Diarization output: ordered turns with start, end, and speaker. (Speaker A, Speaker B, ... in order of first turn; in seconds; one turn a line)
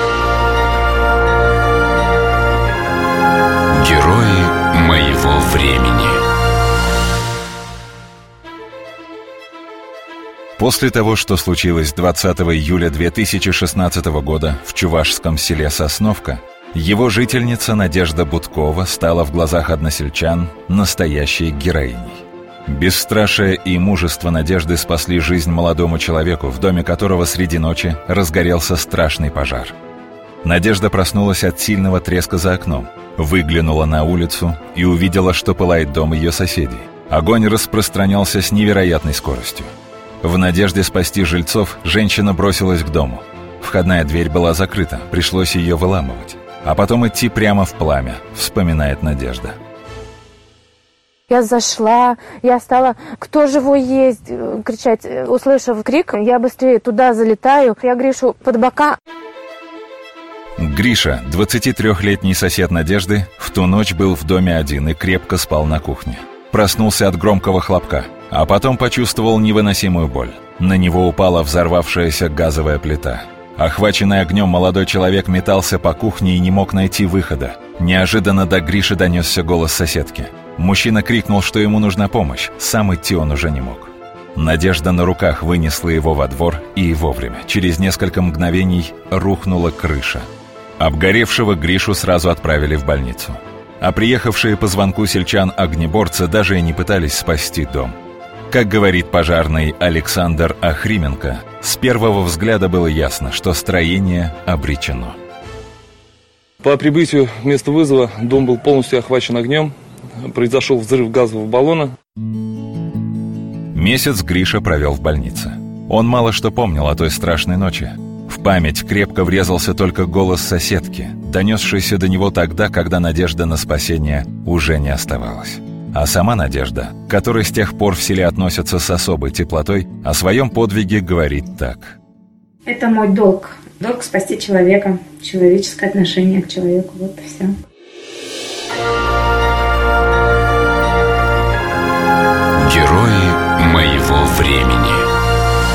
Speaker A: 3.7-6.2
Speaker B: 10.6-29.8
Speaker B: 30.4-39.7
Speaker B: 40.2-49.5
Speaker C: 51.3-59.0
Speaker B: 60.6-90.3
Speaker B: 90.8-97.9
Speaker B: 98.5-105.2
Speaker D: 106.6-111.9
Speaker B: 113.7-132.0
Speaker E: 132.7-137.5
Speaker A: 142.6-145.1